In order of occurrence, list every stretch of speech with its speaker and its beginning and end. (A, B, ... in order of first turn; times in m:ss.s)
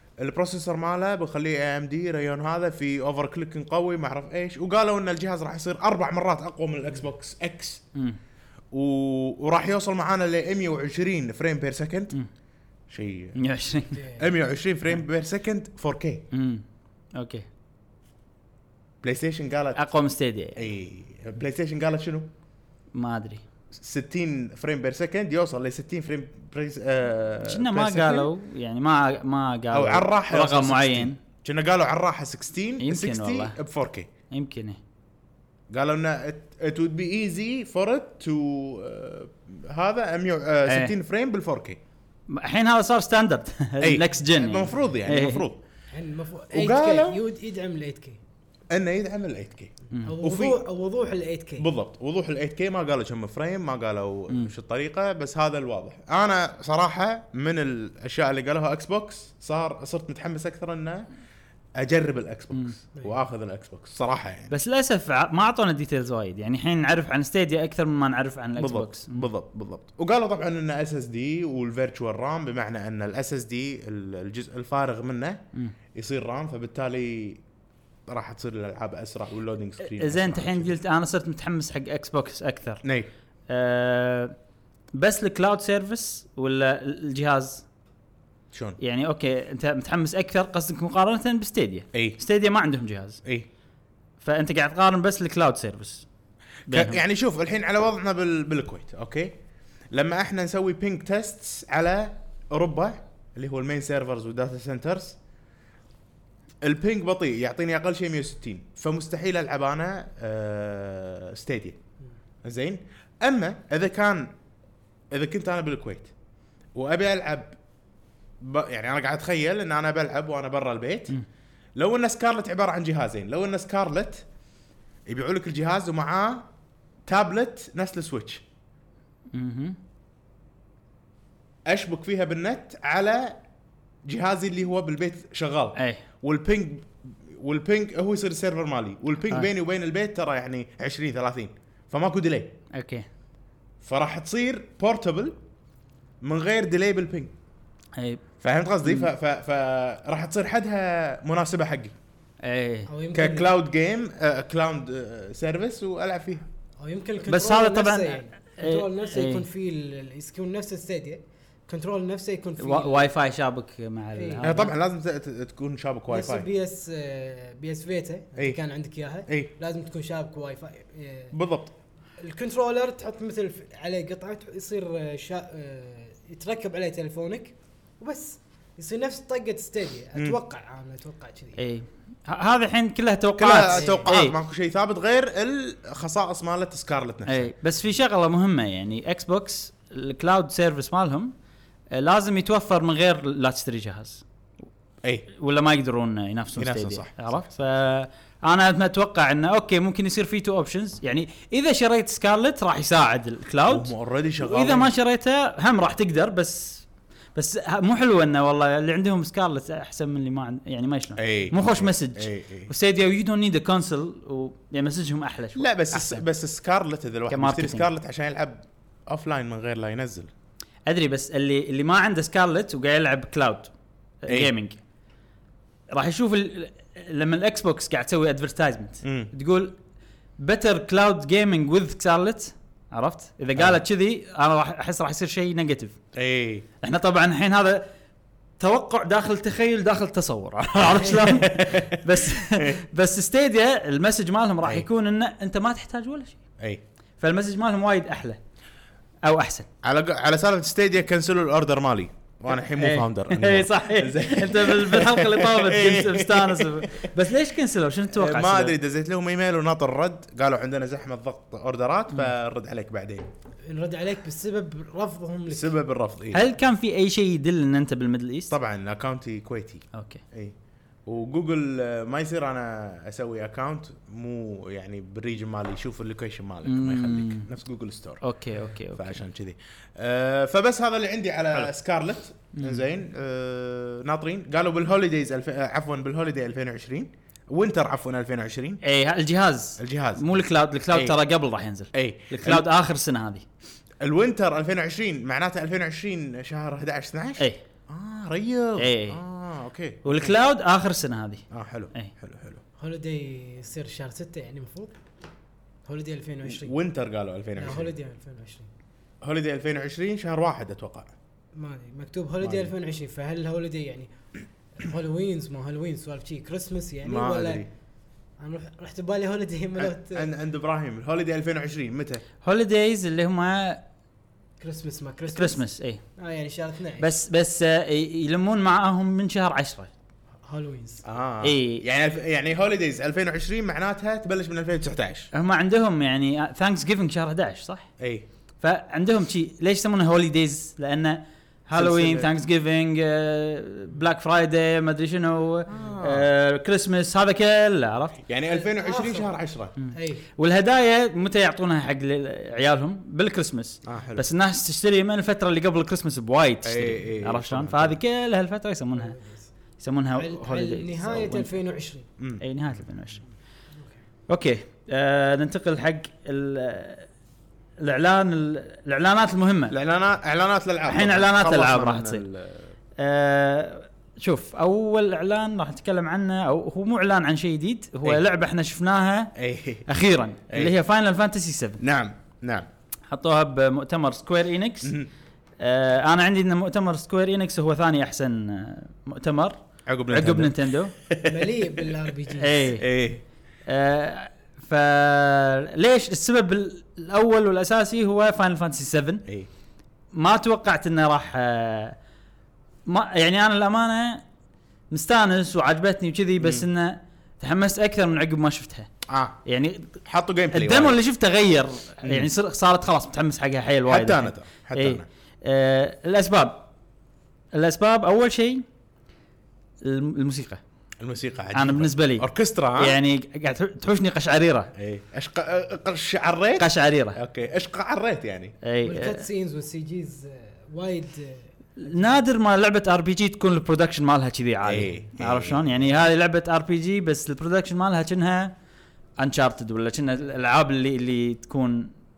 0:00.2-0:07.8 A
0:08.7-0:12.1 A
0:12.9-0:13.4 A
0:13.4-0:14.0 B
0:14.0-0:14.2 C
0:14.2-0:16.3 A
0:16.3-0:16.6 B
0:17.2-0:17.5 B
0:19.0-0:19.8 A
0:19.8-0:20.6 B
0:20.6-0:22.3 A
0:22.9-0:23.4 B
0:23.7-0:28.3 A
0:27.4-0:31.2 B
0:29.7-0:34.1 A
0:32.8-0:33.6 B
0:34.3-0:34.8 B
0:35.7-0:41.8 A
0:40.7-0:40.9 B
0:42.3-0:45.5 B
0:43.8-0:45.6 A
0:45.9-0:48.2 C
0:46.5-0:47.2 A
0:48.7-0:50.6 A
0:50.0-0:51.7 C
0:51.6-1:01.1 A
1:01.8-1:04.5 A
1:04.5-1:09.2 B
1:08.6-1:15.4 A
1:15.9-1:17.4 A
1:18.1-1:20.8 A
1:19.8-1:22.8 B
1:22.8-1:23.1 A
1:23.5-1:24.4 B
1:24.9-1:27.7 B
1:28.5-1:28.8 A
1:28.8-1:33.2 B
1:31.9-1:32.2 A
1:34.2-1:36.1 B
1:36.7-1:37.0 B
1:36.7-1:39.4 A
1:39.9-1:45.2 A
1:46.6-1:51.8 A
1:52.4-1:54.3 A
1:55.1-1:56.1 A
1:56.8-1:57.6 A
1:58.4-2:01.1 A
2:01.8-2:04.2 A
2:05.1-2:06.5 A
2:07.1-2:08.4 A
2:09.3-2:09.8 B
2:11.7-2:13.4 A
2:14.1-2:22.6 A
2:15.8-2:16.0 B
2:22.7-2:23.1 B
2:23.8-2:25.4 A
2:26.2-2:27.3 A
2:28.0-2:28.2 B
2:28.4-2:31.9 A
2:28.8-2:29.1 B
2:32.4-2:32.9 B
2:32.9-2:33.5 C
2:33.1-2:36.4 A
2:36.8-2:43.1 C
2:37.3-2:39.4 B
2:42.6-2:44.7 B
2:44.2-2:44.5 C
2:44.4-2:46.5 A
2:46.1-2:51.3 C
2:49.3-2:49.5 A
2:51.3-2:51.7 A
2:52.2-3:01.6 C
3:01.6-3:04.4 B
3:03.4-3:07.5 A
3:03.7-3:04.1 C
3:07.3-3:11.3 B
3:11.9-3:14.2 B
3:15.3-3:36.2 B
3:16.6-3:17.5 A
3:23.7-3:24.9 A
3:31.2-3:32.7 A
3:35.6-3:40.3 A
3:37.3-3:37.9 B
3:40.9-3:43.7 B
3:44.2-3:44.8 B
3:45.9-3:49.8 B
3:49.0-3:49.3 A
3:50.4-3:56.0 B
3:56.1-3:56.7 A
3:56.8-3:57.9 B
3:58.6-4:06.4 B
4:00.8-4:02.8 A
4:07.2-4:08.4 B
4:09.2-4:09.7 B
4:09.8-4:17.1 A
4:12.8-4:18.8 B
4:18.1-4:23.3 A
4:23.7-4:25.7 C
4:25.5-4:26.4 A
4:26.3-4:28.5 B
4:28.5-4:30.6 A
4:29.9-4:30.2 B
4:31.1-4:38.2 A
4:36.6-4:37.5 B
4:38.2-4:39.2 B
4:38.9-4:48.8 A
4:42.5-4:42.8 B
4:48.8-4:53.4 B
4:49.8-4:50.3 A
4:51.9-4:52.7 A
4:54.0-5:00.4 A
4:58.8-4:59.2 B
5:00.0-5:02.1 B
5:01.5-5:02.6 A
5:02.8-5:04.9 C
5:05.9-5:06.8 C
5:06.5-5:07.9 A
5:07.6-5:08.7 C
5:09.2-5:11.1 A
5:11.6-5:14.1 C
5:12.4-5:12.7 A
5:14.8-5:17.6 C
5:17.0-5:17.7 A
5:18.4-5:20.3 C
5:19.8-5:22.2 A
5:22.4-5:23.8 B
5:24.6-5:25.6 C
5:25.3-5:26.0 B
5:26.2-5:27.1 C
5:27.0-5:29.9 B
5:30.4-5:31.0 C
5:31.0-5:35.3 A
5:31.4-5:31.8 B
5:35.3-5:37.9 B
5:38.0-5:38.3 A
5:38.6-5:48.2 B
5:41.8-5:42.3 A
5:45.7-5:46.3 A
5:48.3-5:49.7 A
5:48.5-5:49.3 C
5:49.8-5:59.2 B
5:49.9-5:50.2 C
5:53.8-5:54.3 A
5:56.6-5:58.0 A
5:59.0-5:59.5 C
5:59.8-6:01.5 B
6:00.2-6:02.1 C
6:02.4-6:03.2 B
6:04.3-6:07.1 B
6:07.8-6:09.8 B
6:09.7-6:12.7 A
6:10.9-6:12.2 B
6:13.0-6:19.3 B
6:19.4-6:19.9 A
6:19.9-6:21.8 B
6:20.5-6:20.8 A
6:21.8-6:22.7 A
6:23.1-6:25.0 B
6:24.8-6:25.1 A
6:25.6-6:29.6 B
6:29.9-6:32.0 A
6:30.1-6:30.9 B
6:31.2-6:32.7 C
6:32.4-6:32.9 B
6:32.8-6:33.2 A
6:33.7-6:39.2 B
6:40.1-6:42.0 B
6:42.9-6:44.2 B
6:44.9-6:48.9 B
6:46.4-6:46.7 A
6:49.1-6:49.4 A
6:49.4-6:50.0 B
6:50.0-6:51.0 A
6:50.5-6:56.7 B
6:52.0-6:52.3 A
6:53.9-6:55.1 A
6:57.5-6:58.6 B
6:59.8-7:00.6 B
7:01.0-7:03.0 A
7:01.5-7:04.7 B
7:04.8-7:08.6 A
7:06.6-7:07.2 B
7:08.6-7:09.2 B
7:08.8-7:12.2 C
7:11.8-7:18.5 B
7:14.6-7:15.9 A
7:19.2-7:21.9 B